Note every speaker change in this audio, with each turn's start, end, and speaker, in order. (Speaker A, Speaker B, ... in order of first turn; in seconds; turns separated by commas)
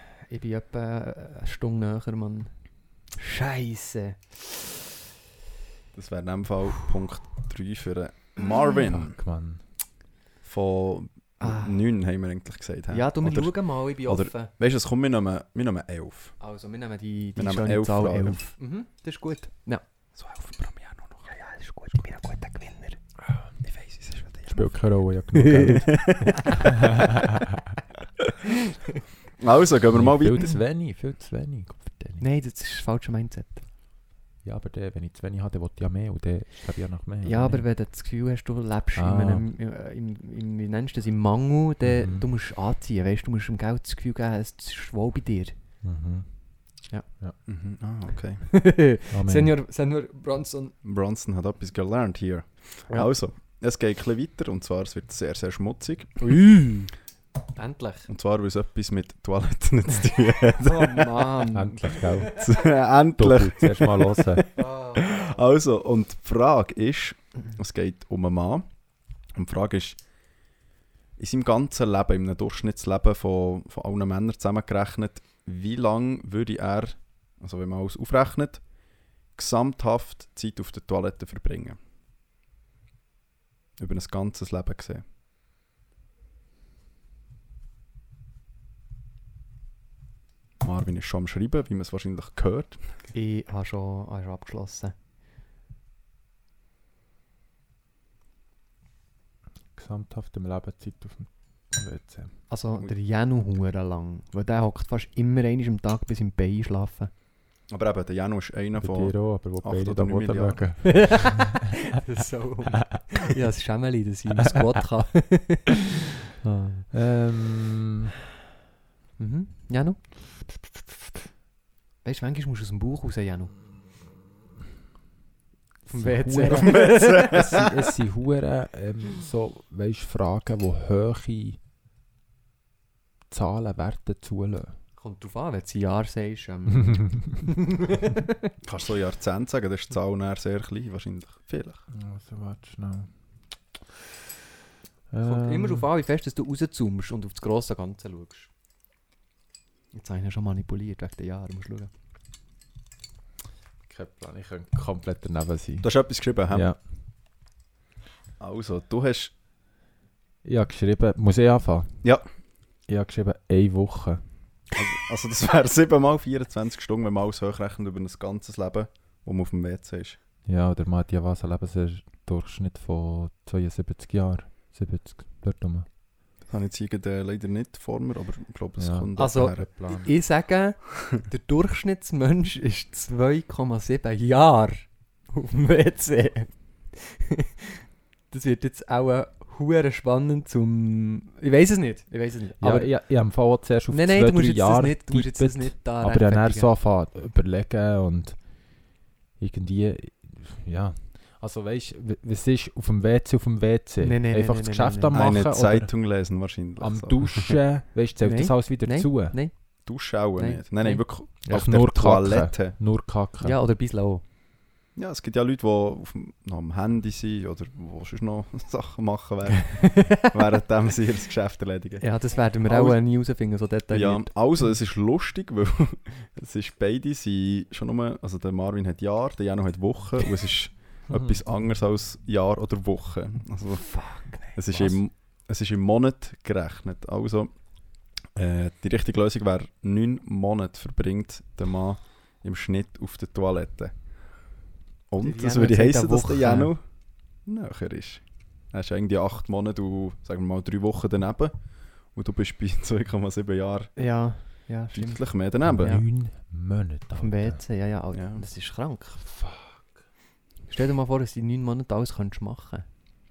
Speaker A: 0.3-2.5, Speaker A: 3.2-4.7, Speaker B: 5.9-9.2, Speaker C: 8.8-9.6, Speaker B: 10.4-16.4, Speaker A: 11.4-11.8, Speaker A: 12.9-14.5, Speaker A: 16.4-19.8, Speaker B: 17.4-18.4, Speaker B: 20.1-21.2, Speaker A: 21.2-23.0, Speaker B: 23.6-24.6, Speaker C: 24.5-27.4, Speaker A: 25.4-26.5, Speaker B: 25.9-26.4, Speaker B: 29.4-30.5, Speaker C: 29.9-32.2, Speaker A: 32.2-33.6, Speaker C: 34.4-37.6, Speaker A: 37.2-45.5, Speaker C: 39.0-39.4, Speaker C: 41.8-42.2, Speaker C: 45.8-46.3, Speaker B: 47.5-48.4, Speaker A: 48.5-50.7, Speaker C: 49.1-49.5, Speaker B: 50.8-56.2, Speaker A: 56.2-56.9, Speaker A: 57.5-58.1, Speaker B: 58.1-61.4, Speaker A: 60.6-62.4, Speaker C: 61.5-62.4, Speaker B: 62.3-68.7, Speaker C: 63.2-64.5, Speaker A: 64.6-65.3, Speaker B: 69.3-70.0, Speaker B: 71.2-78.6, Speaker B: 79.3-81.8, Speaker B: 83.8-85.0, Speaker B: 90.6-93.0, Speaker A: 93.1-94.9, Speaker C: 99.7-102.4, Speaker A: 102.5-107.1, Speaker B: 107.7-110.8, Speaker C: 108.8-111.6, Speaker A: 110.8-116.9, Speaker C: 116.9-118.1, Speaker A: 119.2-120.0, Speaker A: 122.0-123.5, Speaker A: 125.9-127.5, Speaker C: 125.9-131.6, Speaker B: 126.6-127.7, Speaker C: 133.3-134.8, Speaker A: 135.0-138.5, Speaker B: 138.6-141.8, Speaker C: 141.9-143.1, Speaker C: 145.1-145.9, Speaker A: 145.2-148.5, Speaker A: 149.9-151.9, Speaker C: 153.9-155.9, Speaker B: 155.8-156.7, Speaker C: 156.5-156.8, Speaker B: 158.4-159.3, Speaker C: 160.4-161.9, Speaker C: 162.9-164.2, Speaker B: 164.8-170.2, Speaker C: 170.4-175.8, Speaker B: 176.5-179.7, Speaker C: 178.8-180.1, Speaker A: 179.2-192.9, Speaker C: 192.6-198.6, Speaker A: 193.9-196.7, Speaker C: 199.4-205.9, Speaker A: 204.0-205.1, Speaker B: 205.1-207.5, Speaker C: 206.8-209.4, Speaker A: 208.2-209.7, Speaker B: 209.8-212.8, Speaker A: 210.4-211.0, Speaker C: 211.4-213.6, Speaker A: 213.4-214.2, Speaker B: 214.9-222.0, Speaker A: 219.7-220.3, Speaker A: 222.0-224.3, Speaker B: 222.6-223.0, Speaker B: 223.9-233.9, Speaker C: 231.1-231.4, Speaker A: 233.7-235.0, Speaker B: 234.5-237.5, Speaker B: 238.3-243.9, Speaker B: 245.1-246.8, Speaker A: 245.2-246.7, Speaker B: 247.4-251.6, Speaker B: 252.1-253.9, Speaker A: 253.9-255.2, Speaker B: 254.9-256.0, Speaker C: 255.7-257.6, Speaker A: 257.1-259.2, Speaker B: 258.1-258.4, Speaker C: 259.4-259.7, Speaker A: 260.7-262.9